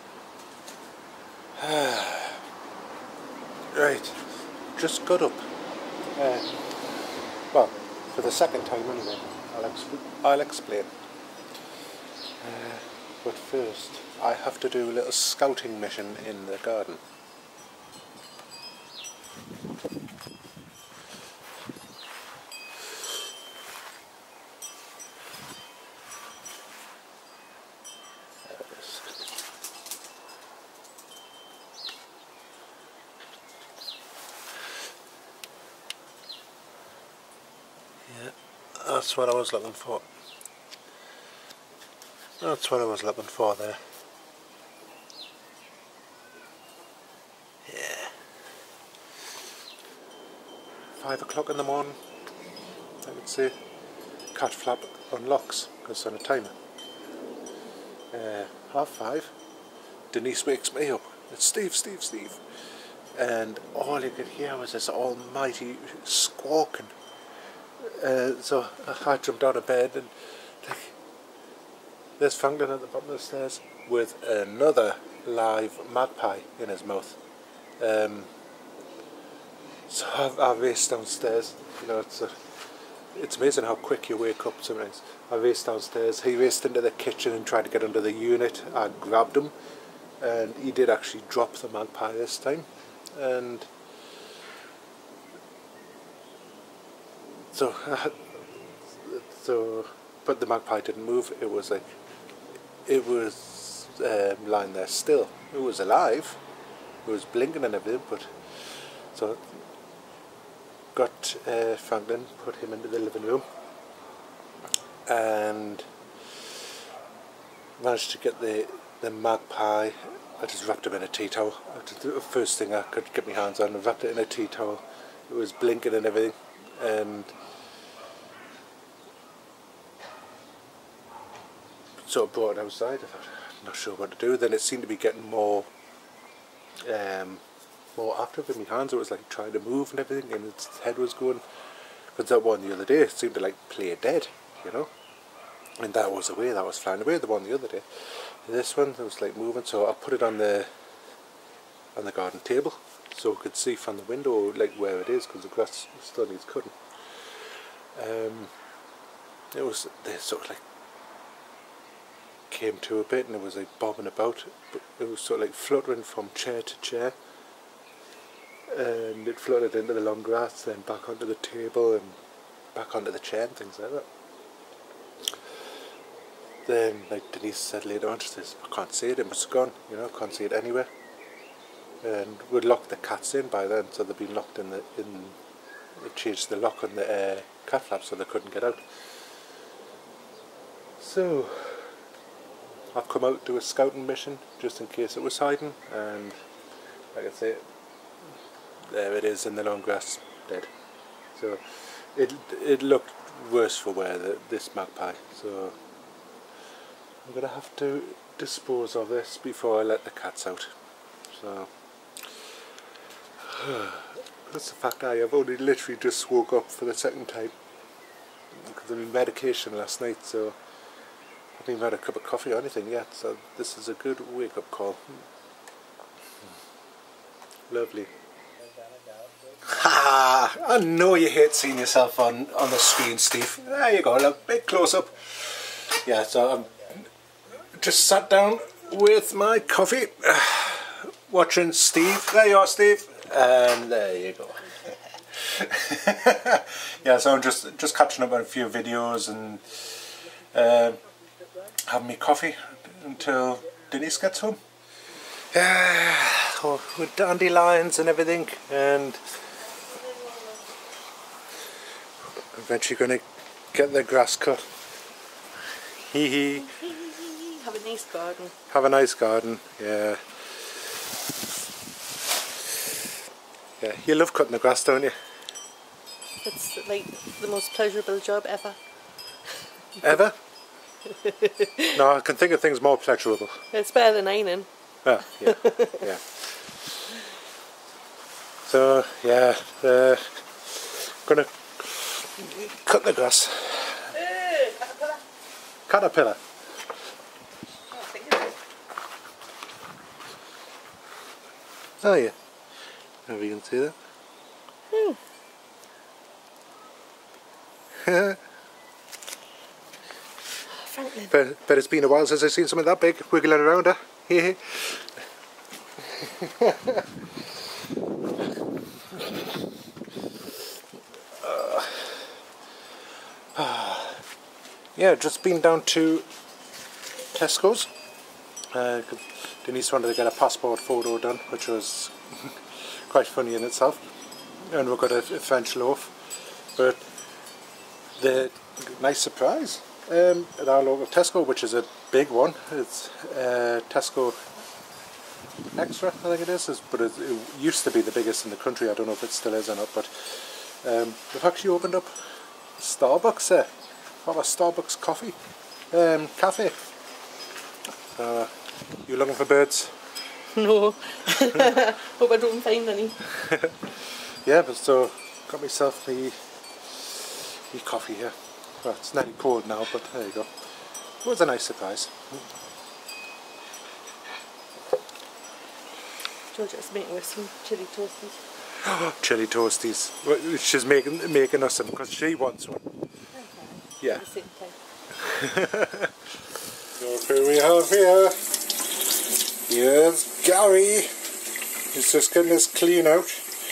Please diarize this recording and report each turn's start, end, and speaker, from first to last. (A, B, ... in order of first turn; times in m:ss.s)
0:01.6-0:02.4 A
0:03.7-0:04.2 A
0:04.7-0:05.5 A
0:06.2-0:06.5 A
0:07.5-0:10.9 A
0:12.4-0:17.0 A
0:28.5-0:29.1 A
0:38.1-0:40.0 A
0:42.4-0:43.8 A
0:47.7-0:48.1 A
0:51.0-0:52.0 A
0:53.0-0:53.6 A
0:54.3-0:56.5 A
0:58.1-0:59.3 A
1:00.1-1:02.4 A
1:03.2-1:07.0 A
1:07.8-1:11.0 A
1:12.2-1:17.2 A
1:17.8-1:18.3 A
1:19.9-1:22.4 A
1:23.1-1:29.5 A
1:30.2-1:33.7 A
1:37.5-1:41.9 A
1:42.9-1:46.4 A
1:47.0-1:48.3 A
1:49.1-1:49.6 A
1:51.0-1:53.4 A
1:55.1-1:55.9 A
1:57.8-2:07.4 A
2:12.0-2:15.7 A
2:16.8-2:17.4 A
2:18.0-2:21.4 A
2:22.1-2:24.9 A
2:25.8-2:27.9 A
2:28.4-2:30.7 A
2:32.0-2:36.8 A
2:38.0-2:38.5 A
2:39.5-2:40.6 A
2:42.5-2:47.2 A
2:48.7-2:52.2 A
2:52.7-2:54.1 A
2:56.6-3:00.9 A
3:02.0-3:05.4 A
3:06.0-3:08.8 A
3:11.0-3:12.0 A
3:12.9-3:16.4 A
3:17.1-3:17.6 A
3:18.9-3:20.7 A
3:21.4-3:21.6 A
3:22.2-3:25.8 A
3:27.2-3:30.7 A
3:31.3-3:31.7 A
3:33.4-3:37.5 A
3:38.6-3:40.6 A
3:41.6-3:45.2 A
3:47.7-3:48.1 A
3:49.6-3:57.1 A
3:57.8-4:09.9 A
4:10.5-4:11.0 A
4:11.9-4:14.6 A
4:15.5-4:19.2 A
4:19.9-4:20.6 B
4:22.5-4:24.6 A
4:26.1-4:26.7 A
4:26.7-4:28.5 B
4:28.7-4:30.2 A
4:33.8-4:35.1 A
4:36.4-4:38.8 B
4:40.0-4:40.4 A
4:41.2-4:42.0 B
4:41.9-4:43.6 A
4:43.7-4:44.7 B
4:45.0-4:46.2 A
4:45.4-4:45.9 B
4:48.7-4:54.2 A
4:54.4-4:54.9 B
4:55.9-4:56.4 A
4:57.9-4:58.6 B
5:02.0-5:02.4 A
5:03.3-5:04.0 A
5:04.9-5:05.2 B
5:08.0-5:08.4 A
5:10.8-5:11.3 B
5:11.3-5:15.0 A
5:16.1-5:17.0 A
5:21.4-5:22.2 A
5:23.5-5:24.2 A
5:25.0-5:26.3 A
5:27.3-5:27.9 A
5:28.7-5:32.6 A
5:33.1-5:34.0 A
5:34.7-5:36.1 A
5:36.8-5:37.1 A
5:38.2-5:44.4 A
5:45.8-5:52.1 A
5:52.8-5:53.7 A
5:54.2-5:55.4 A
5:55.9-5:56.8 A
5:58.1-5:58.5 A
5:59.1-6:00.0 A
6:00.6-6:03.2 B
6:04.4-6:06.4 A
6:06.9-6:10.5 A
6:11.2-6:12.2 A
6:16.5-6:18.4 B
6:18.8-6:22.8 A
6:23.4-6:24.8 B
6:25.2-6:26.1 A
6:27.0-6:28.4 A
6:29.7-6:31.1 A
6:31.9-6:33.5 A